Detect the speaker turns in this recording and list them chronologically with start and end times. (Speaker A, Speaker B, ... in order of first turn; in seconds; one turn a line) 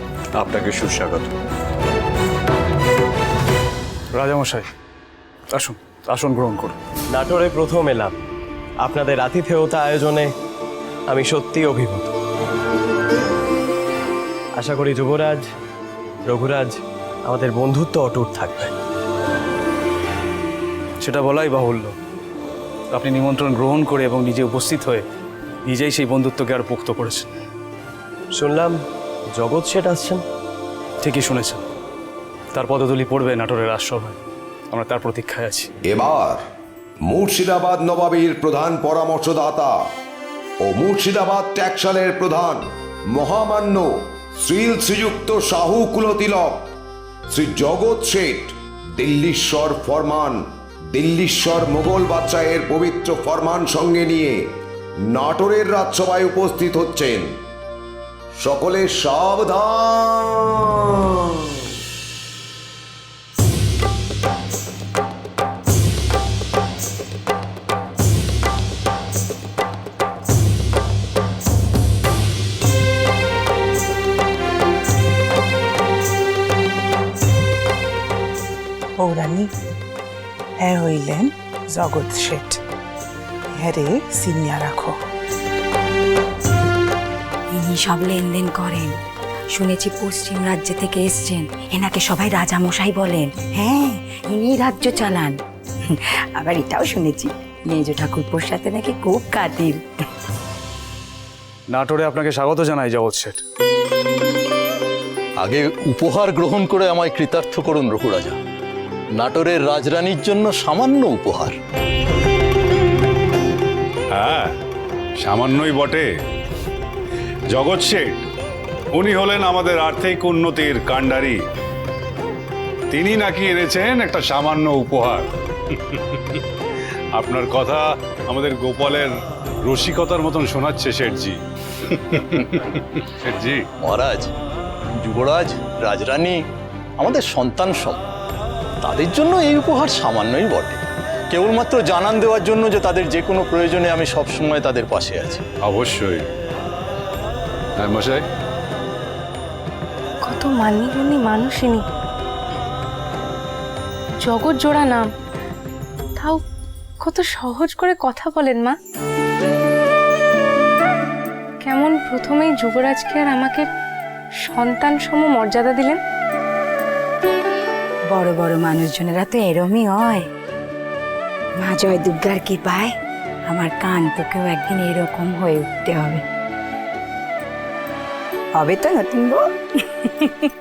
Speaker A: 4.1-4.7
Speaker A: 5.5-6.8
Speaker B: 7.1-8.1
Speaker B: 8.8-10.3
Speaker B: 11.1-12.1
Speaker B: 14.6-15.4
Speaker B: 16.3-16.7
Speaker B: 17.3-18.7
Speaker A: 21.0-21.9
Speaker A: 22.9-25.1
Speaker A: 25.6-27.3
Speaker B: 28.3-28.8
Speaker B: 29.4-30.2
Speaker A: 31.0-31.6
Speaker A: 32.5-35.7
Speaker C: 35.9-36.4
Speaker C: 37.1-39.7
Speaker C: 40.6-46.6
Speaker C: 47.3-50.4
Speaker C: 50.9-54.4
Speaker C: 55.1-57.3
Speaker C: 58.4-61.6
Speaker D: 79.0-79.5
Speaker D: 80.6-82.6
Speaker D: 83.5-85.0
Speaker E: 87.5-89.0
Speaker E: 89.5-95.4
Speaker E: 96.4-99.8
Speaker A: 101.7-103.4
Speaker F: 105.4-108.4
Speaker F: 109.2-111.6
Speaker G: 114.1-114.5
Speaker G: 115.2-116.1
Speaker G: 117.5-118.2
Speaker G: 118.9-121.4
Speaker G: 122.9-126.4
Speaker G: 127.2-129.1
Speaker G: 129.7-133.6
Speaker F: 133.8-134.3
Speaker F: 135.0-136.4
Speaker F: 137.0-138.0
Speaker F: 138.8-145.4
Speaker G: 145.6-146.2
Speaker G: 147.8-148.2
Speaker H: 150.2-151.8
Speaker H: 154.2-155.1
Speaker H: 156.2-156.4
Speaker H: 157.0-158.8
Speaker H: 161.6-163.7
Speaker H: 164.4-166.0
Speaker E: 168.1-170.3
Speaker E: 171.6-172.9
Speaker E: 173.5-176.2
Speaker E: 178.6-179.4